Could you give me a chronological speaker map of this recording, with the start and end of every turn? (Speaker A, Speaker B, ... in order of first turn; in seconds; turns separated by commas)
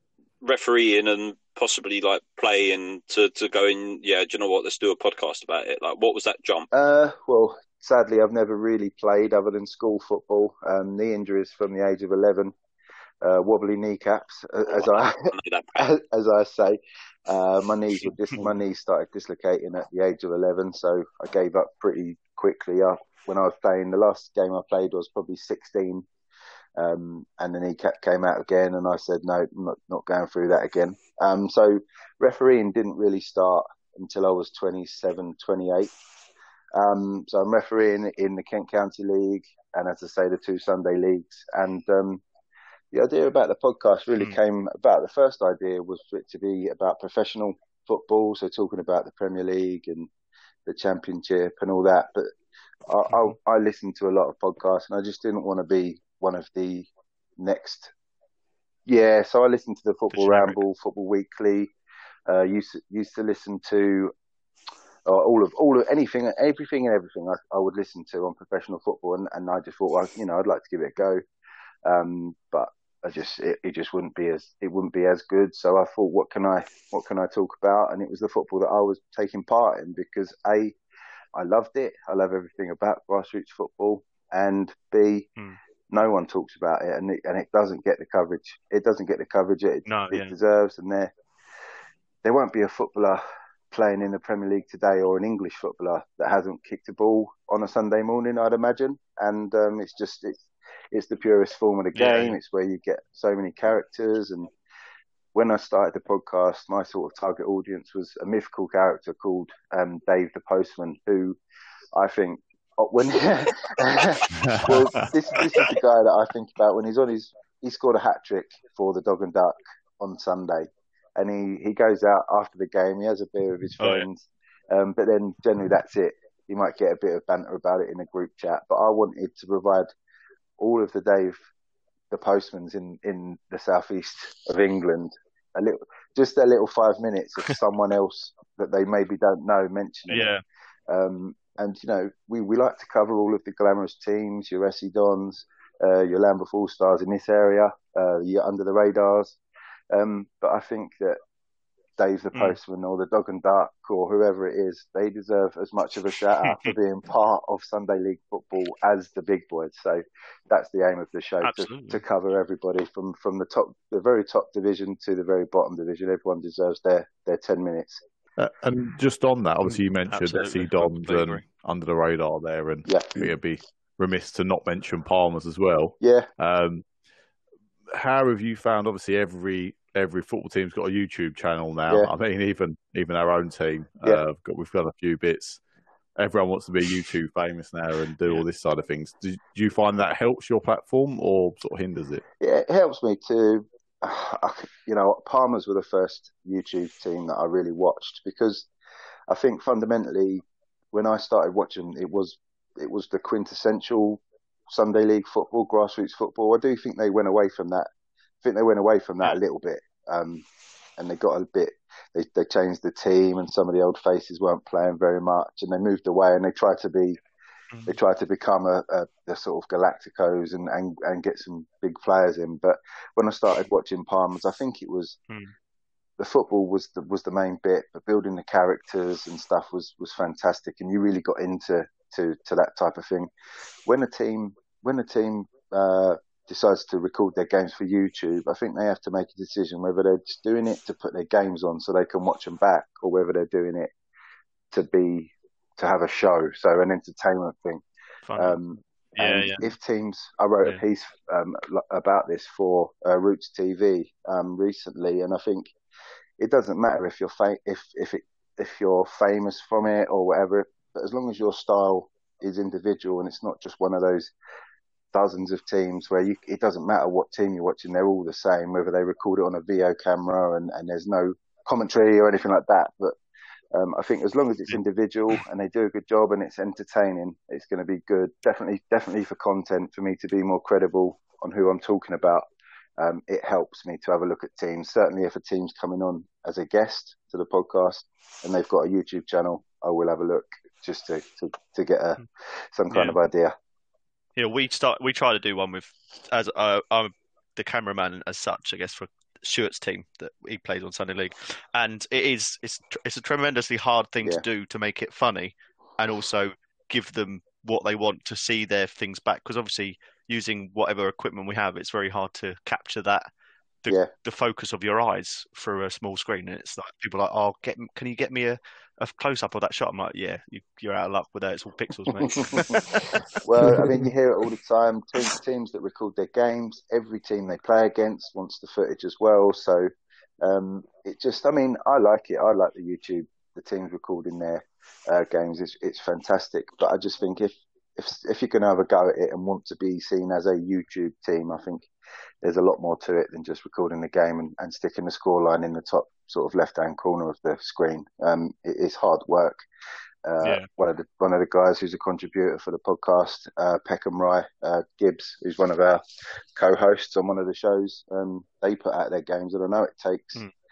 Speaker A: 0.4-6.7, Speaker B: 6.7-12.5, Speaker B: 13.2-26.1, Speaker A: 14.7-15.9, Speaker B: 26.8-35.9, Speaker B: 36.7-42.2, Speaker B: 42.9-50.1, Speaker B: 50.7-52.3, Speaker B: 52.9-57.9, Speaker B: 58.9-61.7, Speaker C: 60.1-60.6, Speaker B: 62.3-64.1, Speaker B: 65.1-71.2, Speaker B: 71.8-80.8, Speaker B: 81.3-85.3, Speaker B: 85.9-91.1, Speaker C: 89.9-90.3, Speaker B: 92.2-104.5, Speaker C: 102.0-102.4, Speaker B: 105.3-111.4, Speaker B: 111.9-129.9, Speaker D: 114.3-114.7, Speaker C: 123.8-124.1, Speaker B: 130.6-131.4, Speaker B: 132.1-140.3, Speaker C: 140.1-140.4, Speaker B: 140.9-149.4, Speaker B: 149.9-151.2, Speaker B: 152.0-168.0, Speaker C: 161.4-162.0, Speaker D: 168.4-176.9, Speaker C: 169.8-171.4, Speaker B: 172.8-173.3, Speaker B: 176.0-176.3, Speaker D: 177.9-185.6, Speaker D: 186.2-192.2, Speaker B: 192.4-198.7, Speaker B: 199.3-207.9, Speaker B: 208.4-210.5, Speaker B: 211.0-217.2, Speaker C: 217.7-218.0, Speaker B: 217.9-225.2, Speaker B: 226.2-233.3, Speaker B: 233.8-243.9, Speaker B: 244.7-247.8, Speaker C: 248.3-248.6, Speaker B: 248.4-255.7, Speaker C: 249.2-249.7, Speaker B: 256.4-264.3, Speaker B: 265.1-273.1, Speaker B: 273.7-282.5, Speaker B: 283.0-292.2, Speaker B: 292.7-293.6, Speaker C: 292.9-293.2, Speaker C: 294.4-313.3, Speaker C: 313.9-323.9, Speaker B: 322.5-322.8, Speaker B: 323.4-329.9, Speaker B: 330.4-341.9, Speaker B: 342.4-349.6, Speaker B: 350.2-356.0, Speaker C: 350.4-350.7, Speaker B: 356.6-360.4